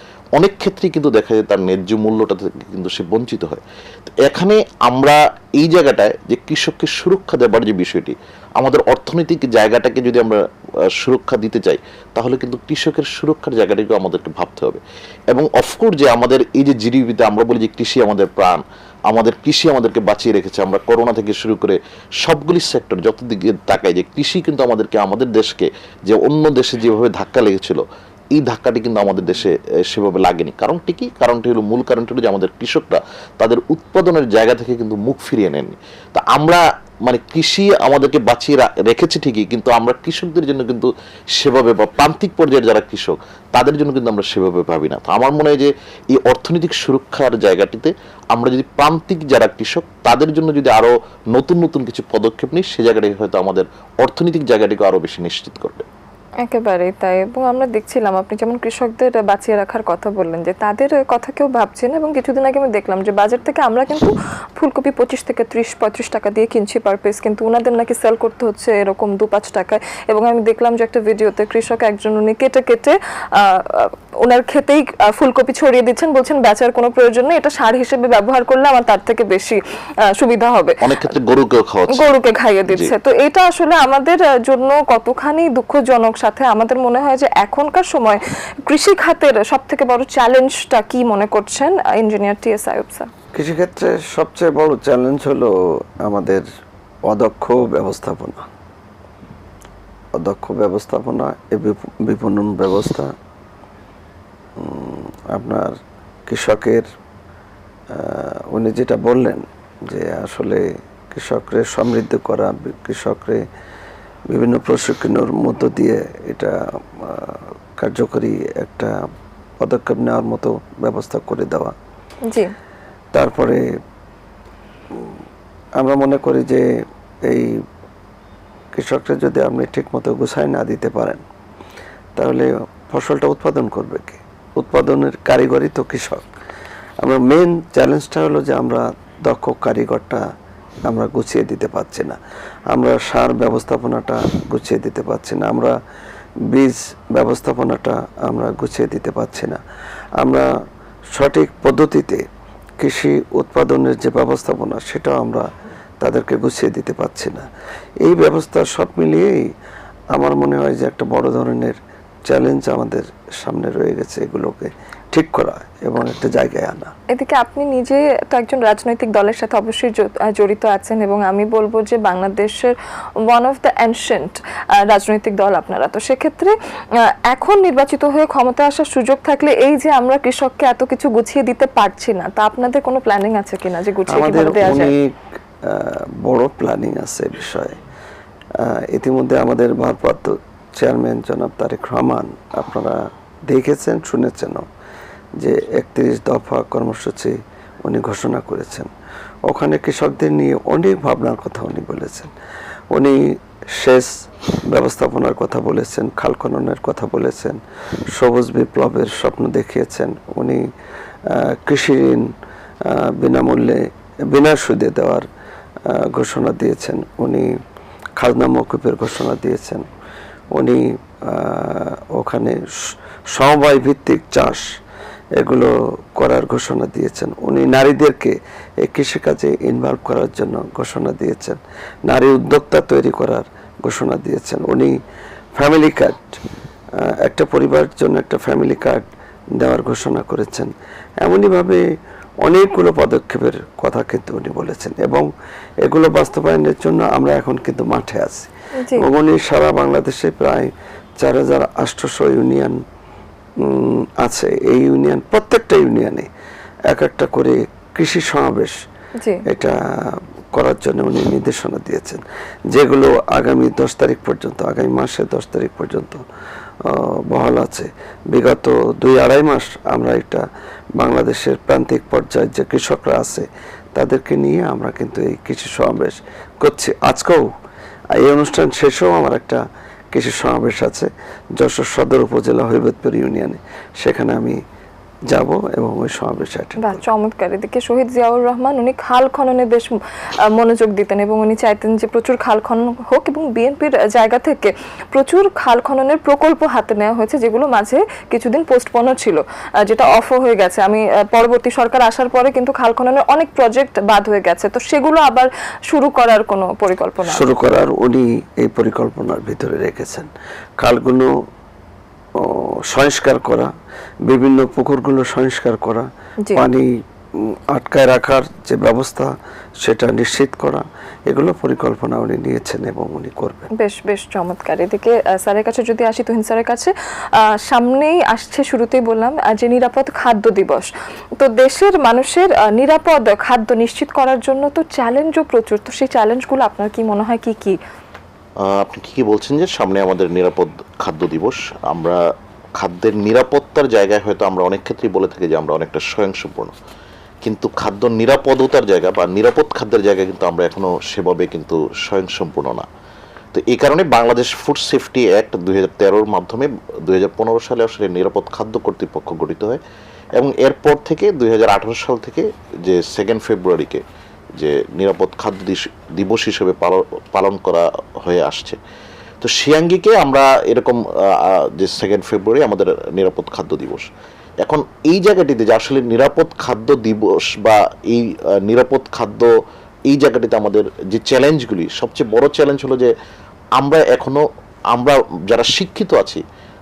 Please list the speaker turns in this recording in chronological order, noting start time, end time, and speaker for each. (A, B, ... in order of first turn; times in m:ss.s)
0:00.4-0:55.9 A
0:56.4-1:21.1 B
1:20.8-1:22.1 A
1:21.9-1:33.1 B
1:33.3-1:36.4 C
1:37.1-1:38.5 C
1:40.2-1:43.1 C
1:44.6-1:46.9 C
1:47.9-1:53.5 C
1:54.3-1:59.0 C
1:59.6-2:01.7 C
2:02.3-2:02.5 B
2:03.1-2:03.8 C
2:05.8-2:07.6 C
2:08.7-2:11.2 C
2:12.2-2:16.3 C
2:17.0-2:20.3 C
2:20.9-2:22.2 C
2:22.7-2:25.8 C
2:26.5-2:29.6 C
2:30.2-2:30.5 C
2:31.1-2:32.2 C
2:32.8-2:35.5 C
2:36.0-2:37.5 C
2:38.0-2:39.5 C
2:40.1-2:46.9 C
2:47.1-2:52.7 B
2:53.3-2:56.6 B
2:57.1-3:04.9 B
3:04.1-3:07.8 C
3:08.6-3:14.7 C
3:15.4-3:18.9 C
3:19.5-3:22.3 C
3:22.9-3:27.6 C
3:28.1-3:30.7 C
3:31.3-3:35.3 C
3:35.9-3:37.6 C
3:38.2-3:39.9 C
3:40.5-3:44.8 C
3:45.4-3:55.0 C
3:55.6-3:56.4 C
3:57.0-3:59.0 C
3:59.6-4:01.9 C
4:02.4-4:05.3 C
4:05.8-4:12.8 C
4:13.6-4:16.3 C
4:16.9-4:18.8 C
4:19.2-4:19.4 B
4:19.5-4:26.2 C
4:26.8-4:30.5 C
4:31.0-4:37.5 C
4:38.1-4:44.6 C
4:45.3-4:47.0 C
4:46.8-5:07.5 B
5:07.3-5:11.4 C
5:12.4-5:13.7 C
5:14.3-5:23.7 C
5:23.8-5:37.8 B
5:38.6-5:42.2 A
5:42.8-5:46.7 A
5:47.4-5:52.9 A
5:53.5-5:59.8 A
6:00.4-6:04.0 A
6:04.6-6:08.8 A
6:09.4-6:14.1 A
6:14.6-6:19.5 A
6:20.1-6:23.1 A
6:23.8-6:26.4 A